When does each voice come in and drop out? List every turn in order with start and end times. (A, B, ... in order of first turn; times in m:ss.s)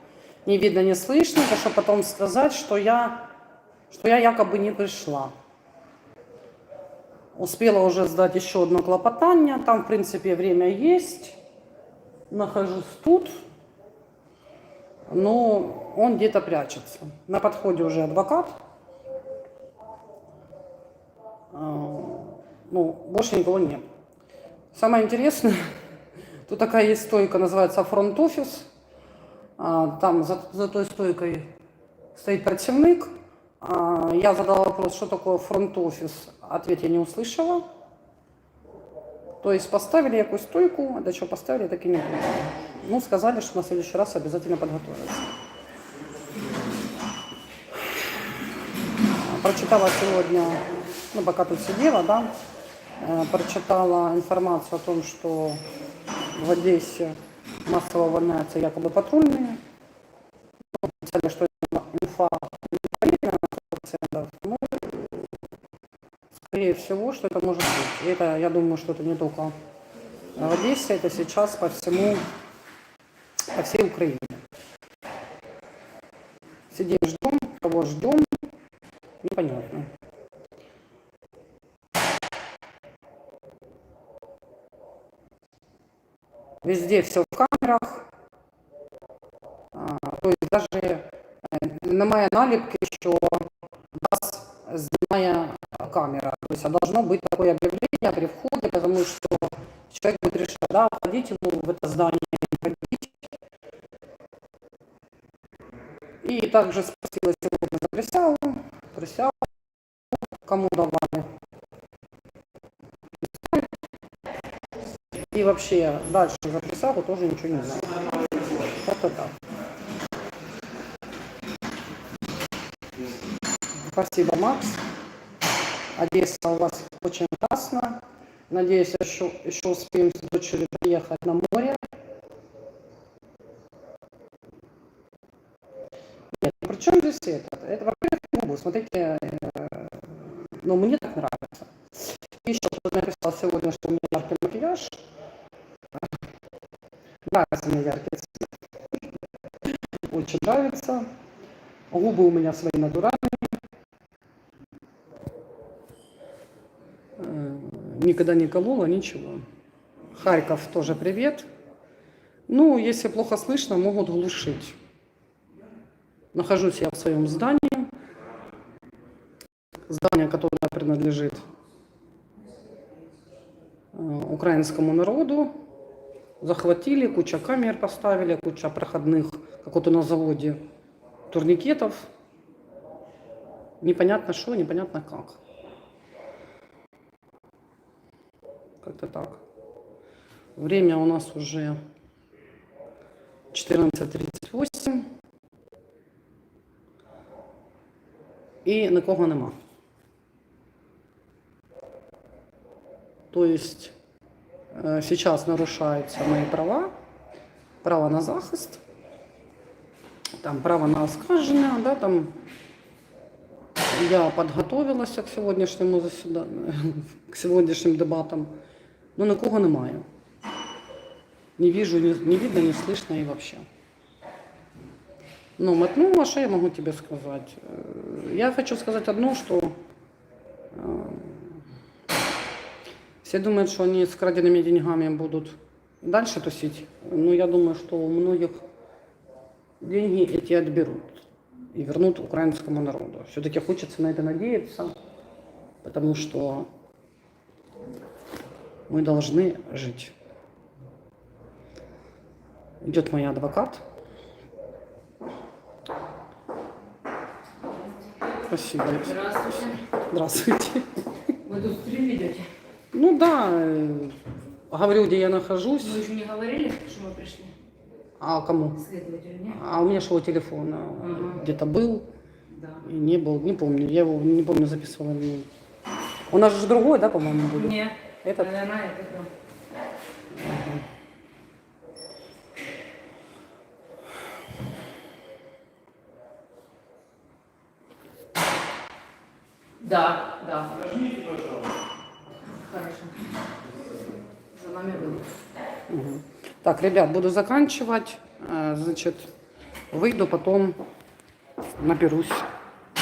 0:00.4-0:03.2 A
0:03.9-0:05.3 A
0:07.3-0:11.4 A
0:12.3-0:13.4 A
0:15.1-0:18.6 A
0:21.5-0:23.8 A
0:24.7-0:25.7 A
0:26.4-0:28.7 A
0:29.6-0:31.5 A
0:32.1-0:37.6 A
0:39.4-0:45.3 A
0:49.2-0:52.3 A
0:53.0-0:55.6 A
0:56.3-0:59.6 A
1:00.8-1:05.3 A
1:06.4-1:09.5 A
1:10.4-1:12.2 A
1:13.5-1:14.4 A
1:16.7-1:18.3 A
1:19.2-1:19.9 A
1:26.6-1:28.1 A
1:29.7-1:43.2 A
1:46.2-1:49.5 A
1:50.4-1:51.3 A
1:55.2-1:59.3 A
2:03.9-2:04.8 A
2:05.9-2:11.8 A
2:16.3-2:20.1 A
2:20.6-2:21.7 A
2:22.4-2:25.0 A
2:27.2-2:28.5 A
2:30.1-2:31.1 A
2:31.9-2:33.6 A
2:37.2-2:39.4 A
2:40.1-2:41.5 A
2:42.5-2:44.8 A
2:46.3-2:47.9 A
2:49.9-2:51.4 A
2:53.9-2:55.5 A
2:56.4-3:00.6 A
3:01.3-3:02.1 A
3:03.8-3:05.4 A
3:08.8-3:09.4 A
3:10.6-3:11.8 A
3:13.5-3:15.1 A
3:18.6-3:19.5 A
3:23.3-3:23.9 A
3:24.7-3:26.9 A
3:27.8-3:28.8 A
3:30.4-3:32.3 A
3:33.9-3:38.5 A
3:39.2-3:40.0 A
3:41.6-3:43.6 A
3:45.6-3:49.8 A
3:50.7-3:51.6 A
3:53.2-3:58.6 A
3:59.8-4:05.0 A
4:05.8-4:06.7 A
4:08.9-4:10.1 A
4:12.8-4:13.8 A
4:18.5-4:19.3 A
4:19.0-4:19.8 B
4:19.9-4:20.9 A
4:21.4-4:22.5 B
4:22.9-4:24.2 A
4:24.7-4:26.0 A
4:25.8-4:27.5 B
4:28.2-4:28.9 A
4:28.8-4:29.6 B
4:29.4-4:32.1 A
4:31.0-4:31.4 B
4:32.5-4:32.8 B
4:32.8-4:35.5 A
4:36.3-4:38.5 A
4:37.6-4:39.3 B
4:40.3-4:40.8 A
4:49.8-4:51.0 B
4:52.6-4:53.2 B
4:54.5-4:55.3 B
4:55.9-4:59.3 A
4:59.9-5:00.8 A
5:01.8-5:02.5 A